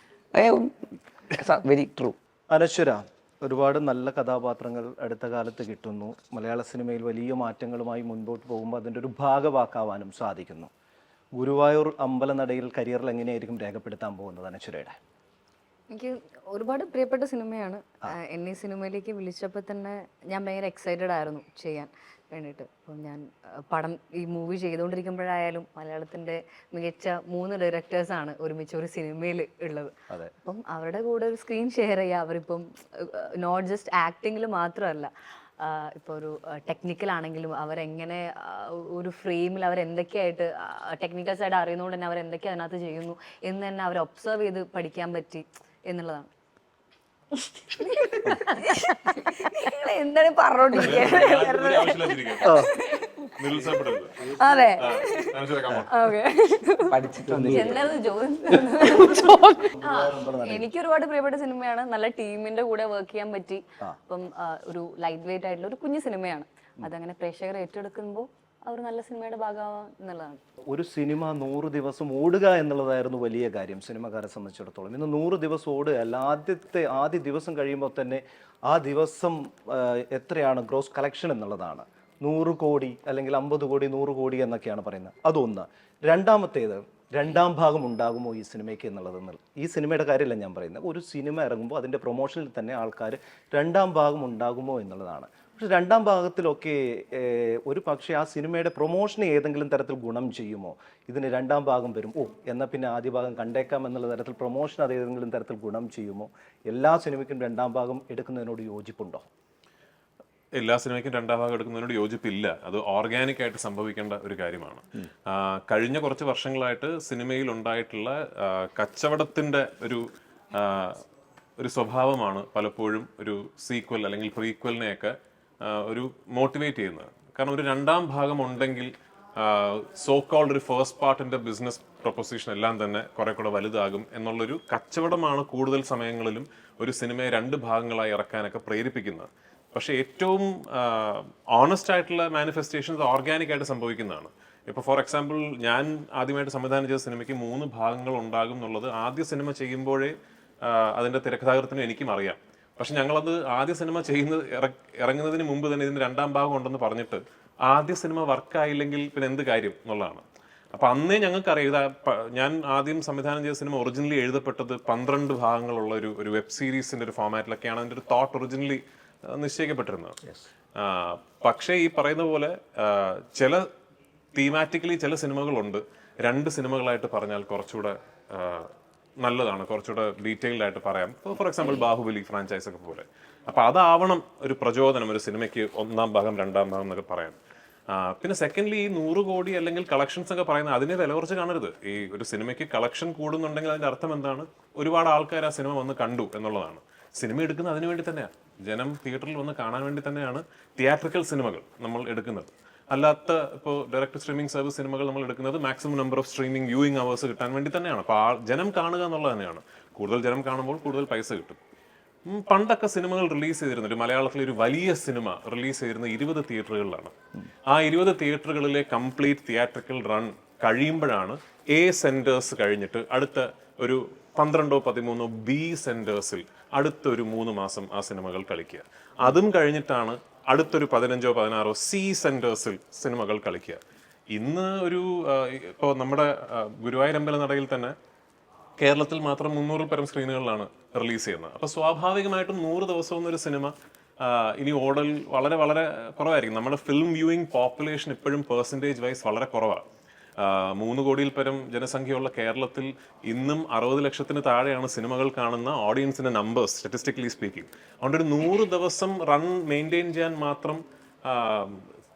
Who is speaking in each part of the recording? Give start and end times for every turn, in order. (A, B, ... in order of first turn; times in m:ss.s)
0:00.3-0:02.1 A
0:02.5-0:10.7 B
0:11.4-0:15.0 B
0:15.9-0:46.3 C
0:47.4-0:53.1 C
0:50.8-0:52.6 D
0:53.4-0:54.2 D
0:54.4-0:57.0 C
0:54.8-0:55.9 D
0:56.9-0:57.8 A
0:57.3-0:57.7 B
0:57.5-1:10.4 C
0:59.7-1:00.7 B
1:10.7-1:49.2 B
1:50.6-2:00.0 D
2:00.5-2:01.0 D
2:01.6-2:05.1 D
2:05.6-2:30.1 D
2:30.6-2:40.2 D
2:40.7-2:48.8 D
2:49.3-2:50.2 D
2:50.8-2:53.6 D
2:54.3-2:58.7 D
2:59.2-3:07.4 D
3:07.9-3:31.6 D
3:32.3-3:37.1 D
3:37.7-3:53.8 D
3:54.3-3:57.9 D
3:58.8-4:09.8 D
4:10.4-4:21.9 D